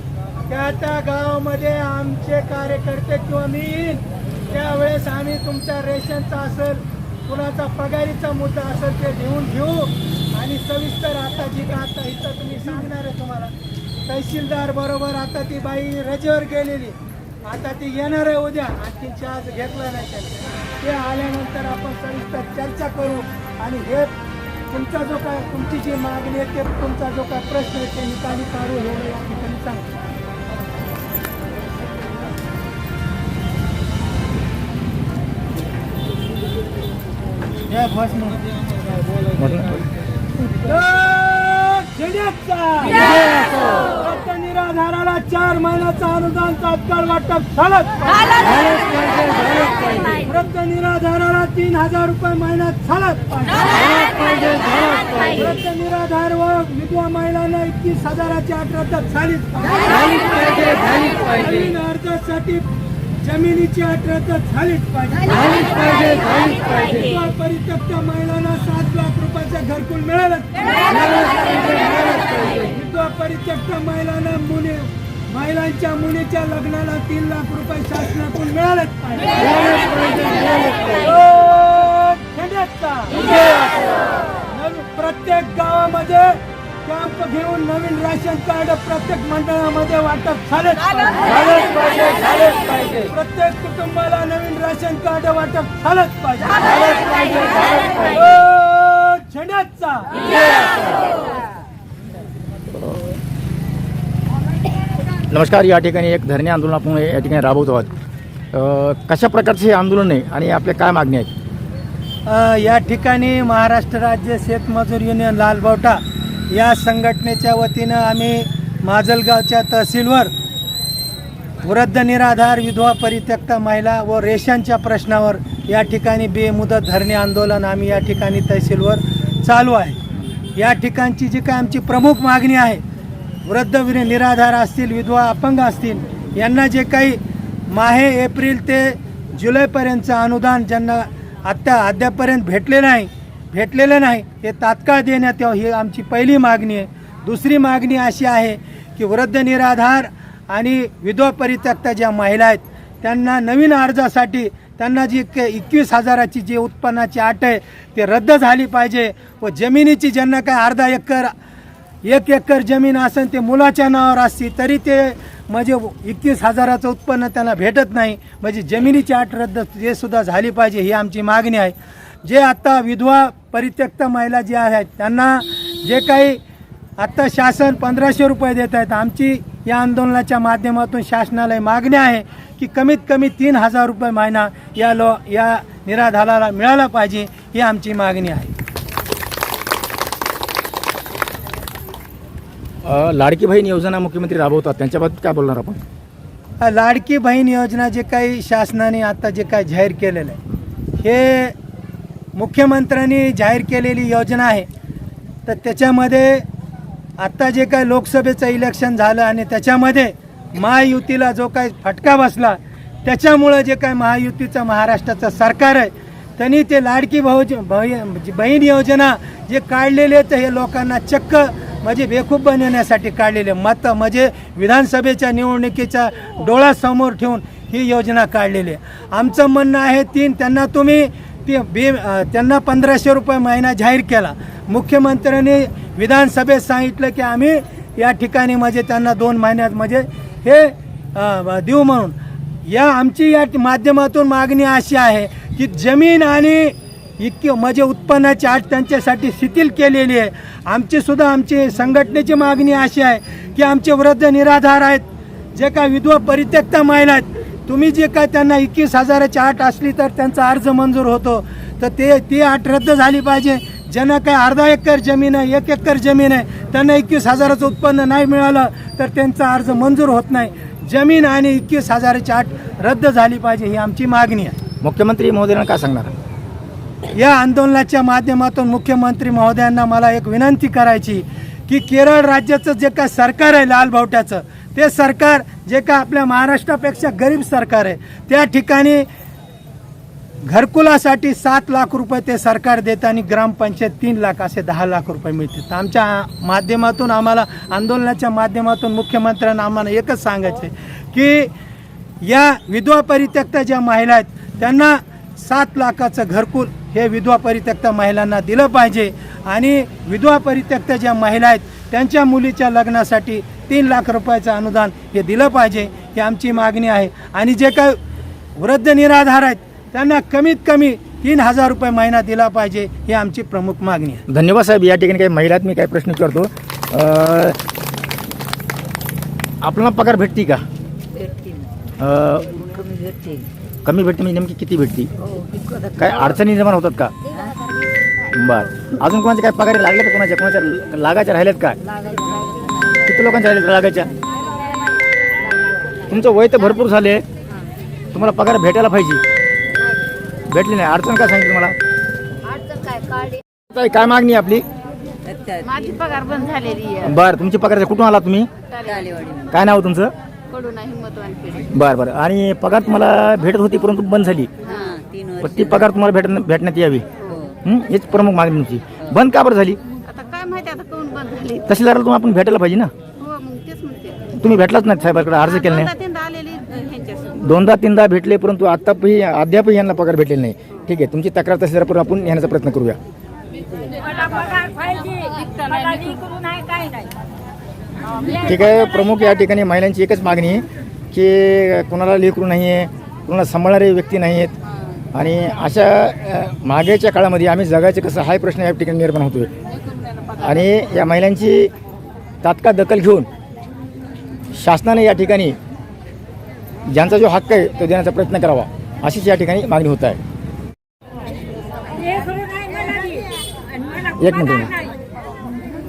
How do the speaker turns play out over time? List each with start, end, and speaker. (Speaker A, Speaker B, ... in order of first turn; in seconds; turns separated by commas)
Speaker A: 0.5-13.5, Speaker A: 14.1-24.1, Speaker A: 24.7-29.9, Speaker A: 37.7-38.4, Speaker B: 39.4-39.8, Speaker A: 40.5-62.7, Speaker A: 63.2-100.7, Speaker B: 105.3-107.9, Speaker B: 108.5-111.3, Speaker A: 112.2-120.3, Speaker A: 121.6-130.0, Speaker A: 130.6-132.8, Speaker A: 133.4-137.2, Speaker A: 137.7-161.3, Speaker A: 162.0-176.4, Speaker A: 177.0-188.5, Speaker B: 192.8-195.8, Speaker A: 196.6-200.4, Speaker A: 201.0-201.5, Speaker A: 202.3-204.7, Speaker A: 205.4-206.4, Speaker A: 207.2-274.6, Speaker B: 274.8-276.1, Speaker A: 277.1-289.1, Speaker A: 290.4-301.5, Speaker A: 302.2-318.0, Speaker A: 318.6-324.2, Speaker B: 324.3-327.6, Speaker B: 329.6-330.6, Speaker C: 331.2-331.6, Speaker B: 332.0-332.8, Speaker C: 333.0-333.4, Speaker B: 333.8-335.1, Speaker B: 335.9-337.1, Speaker B: 338.3-341.8, Speaker B: 343.0-344.1, Speaker B: 346.1-347.2, Speaker B: 348.1-349.2, Speaker B: 350.5-351.8, Speaker B: 353.7-354.6, Speaker C: 355.3-355.6, Speaker D: 355.6-357.1, Speaker B: 357.0-358.5, Speaker D: 358.7-359.3, Speaker C: 359.0-359.4, Speaker B: 359.5-360.1, Speaker D: 360.5-361.7, Speaker B: 361.7-364.5, Speaker C: 364.8-365.4, Speaker B: 365.4-367.1, Speaker B: 367.6-369.8, Speaker D: 370.0-371.7, Speaker B: 371.6-372.9, Speaker D: 373.2-374.3, Speaker B: 374.4-375.9, Speaker D: 375.4-377.3, Speaker B: 377.3-383.0, Speaker D: 384.4-386.4, Speaker C: 384.5-385.3, Speaker C: 385.9-387.1, Speaker B: 388.3-394.5, Speaker B: 395.1-399.5, Speaker B: 400.4-401.7, Speaker B: 402.4-403.3, Speaker B: 404.6-405.6, Speaker B: 406.9-410.2, Speaker B: 414.2-414.8